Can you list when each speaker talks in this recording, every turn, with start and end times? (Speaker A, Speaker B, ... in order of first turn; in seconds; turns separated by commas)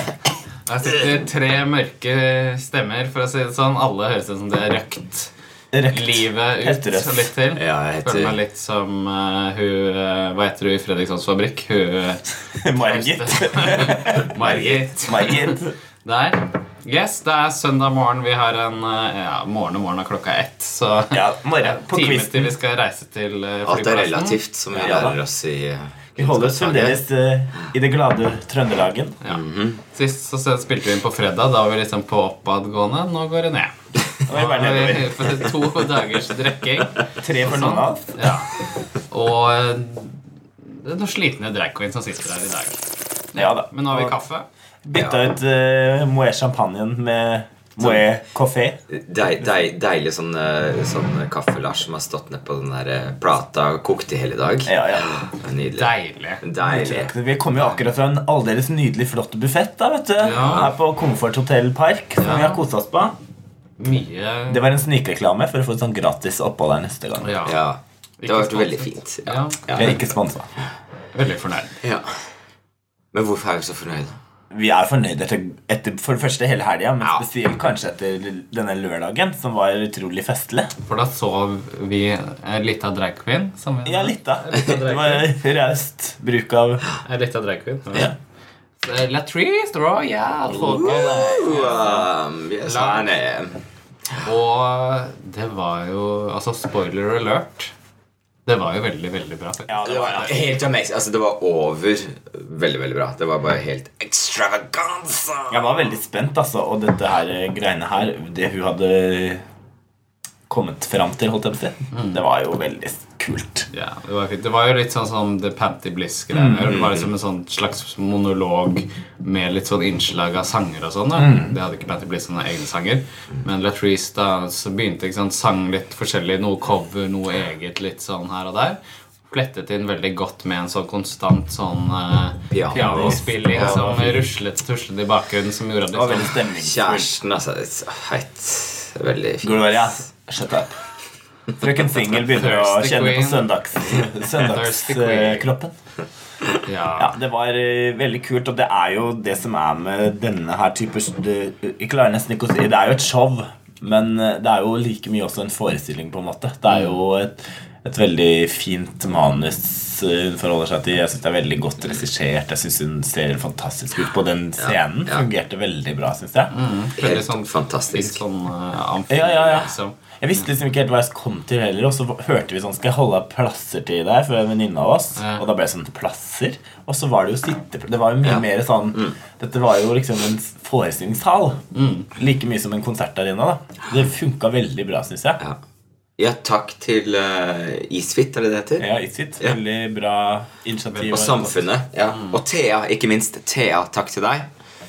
Speaker A: 0.7-5.3, Speaker B: 5.7-7.3, Speaker A: 5.9-24.4, Speaker C: 7.5-8.3, Speaker B: 12.5-15.8, Speaker B: 21.1-22.6, Speaker C: 23.6-27.0, Speaker B: 24.7-25.2, Speaker B: 26.2-29.2, Speaker C: 29.3-29.8, Speaker A: 29.9-33.7, Speaker B: 34.2-35.4, Speaker A: 34.3-38.6, Speaker B: 37.2-38.2, Speaker A: 39.1-42.8, Speaker A: 43.3-44.5, Speaker B: 43.3-44.2, Speaker B: 44.8-48.8, Speaker C: 44.9-45.2, Speaker C: 47.8-48.0, Speaker C: 48.9-57.1, Speaker B: 54.6-55.2, Speaker A: 55.7-56.4, Speaker B: 56.6-63.1, Speaker A: 57.5-57.8, Speaker A: 60.2-60.7, Speaker C: 60.2-60.7, Speaker A: 62.2-62.6, Speaker A: 63.8-64.7, Speaker B: 64.5-67.4, Speaker A: 67.2-67.6, Speaker C: 67.4-70.0, Speaker A: 68.2-70.1, Speaker B: 69.7-70.5, Speaker A: 71.1-71.8, Speaker C: 73.1-74.2, Speaker B: 74.5-80.7, Speaker A: 80.8-85.3, Speaker B: 83.8-86.8, Speaker A: 87.0-88.1, Speaker A: 88.8-92.0, Speaker C: 90.5-93.6, Speaker B: 90.5-92.0, Speaker A: 92.6-93.2, Speaker A: 94.2-97.7, Speaker A: 98.5-100.5, Speaker B: 99.7-100.4, Speaker C: 99.8-105.9, Speaker B: 105.5-109.4, Speaker B: 110.5-113.7, Speaker A: 111.9-112.2, Speaker A: 113.7-136.5, Speaker B: 116.3-116.7, Speaker C: 116.7-117.1, Speaker B: 121.1-121.5, Speaker C: 132.5-133.8, Speaker B: 132.7-134.3, Speaker B: 135.9-137.1, Speaker C: 136.6-140.0, Speaker B: 139.4-140.8, Speaker B: 141.6-145.7, Speaker A: 142.2-143.5, Speaker A: 144.3-145.4, Speaker A: 146.6-147.2, Speaker B: 147.0-166.5, Speaker A: 156.7-157.0, Speaker C: 164.6-165.3, Speaker A: 166.5-169.9, Speaker C: 167.0-168.2, Speaker B: 169.1-181.6, Speaker A: 175.2-175.5, Speaker C: 178.2-179.1, Speaker A: 181.7-182.1, Speaker B: 182.1-185.4, Speaker C: 186.2-188.9, Speaker B: 188.8-191.6, Speaker C: 190.9-194.5